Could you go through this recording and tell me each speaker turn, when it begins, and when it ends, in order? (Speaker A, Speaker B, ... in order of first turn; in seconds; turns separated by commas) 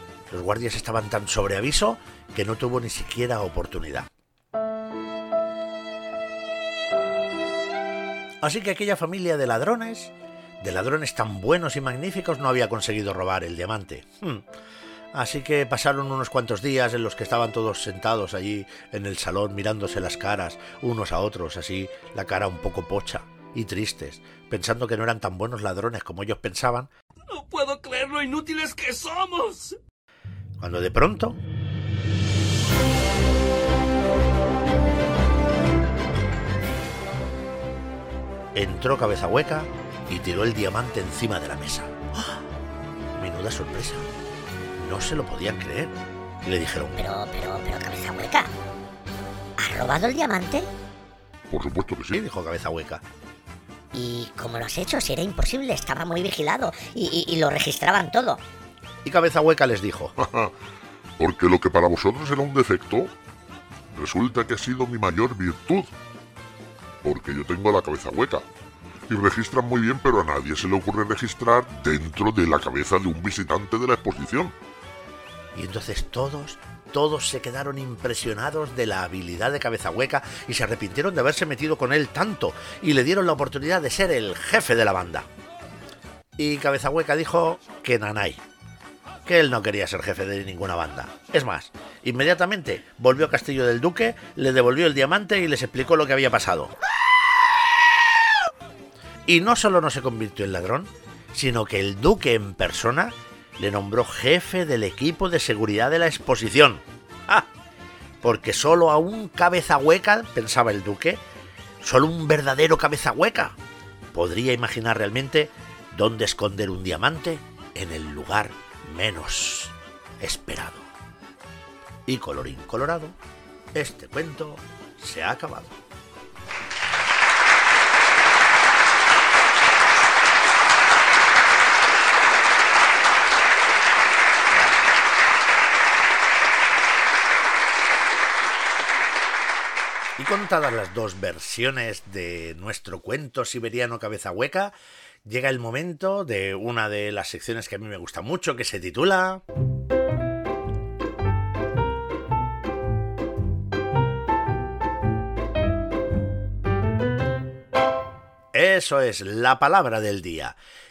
Speaker A: 0.3-4.1, Speaker A: 8.4-14.4, Speaker A: 15.1-26.9, Speaker B: 27.3-29.8, Speaker A: 30.6-31.4, Speaker A: 38.5-42.0, Speaker A: 43.1-44.0, Speaker A: 44.8-47.0, Speaker C: 47.0-48.5, Speaker C: 49.6-50.7, Speaker D: 51.5-52.2, Speaker A: 52.1-53.0, Speaker C: 53.9-58.4, Speaker A: 59.0-60.1, Speaker D: 60.2-60.5, Speaker D: 61.2-63.1, Speaker D: 63.9-65.9, Speaker D: 67.0-68.5, Speaker D: 69.1-74.5, Speaker A: 75.5-85.3, Speaker A: 86.4-88.4, Speaker A: 89.2-96.7, Speaker A: 99.2-107.5, Speaker A: 108.2-111.2, Speaker A: 111.8-113.6, Speaker A: 114.1-120.9, Speaker A: 122.1-123.1, Speaker A: 123.7-125.8, Speaker A: 140.2-144.7, Speaker A: 145.2-149.4, Speaker A: 158.5-160.6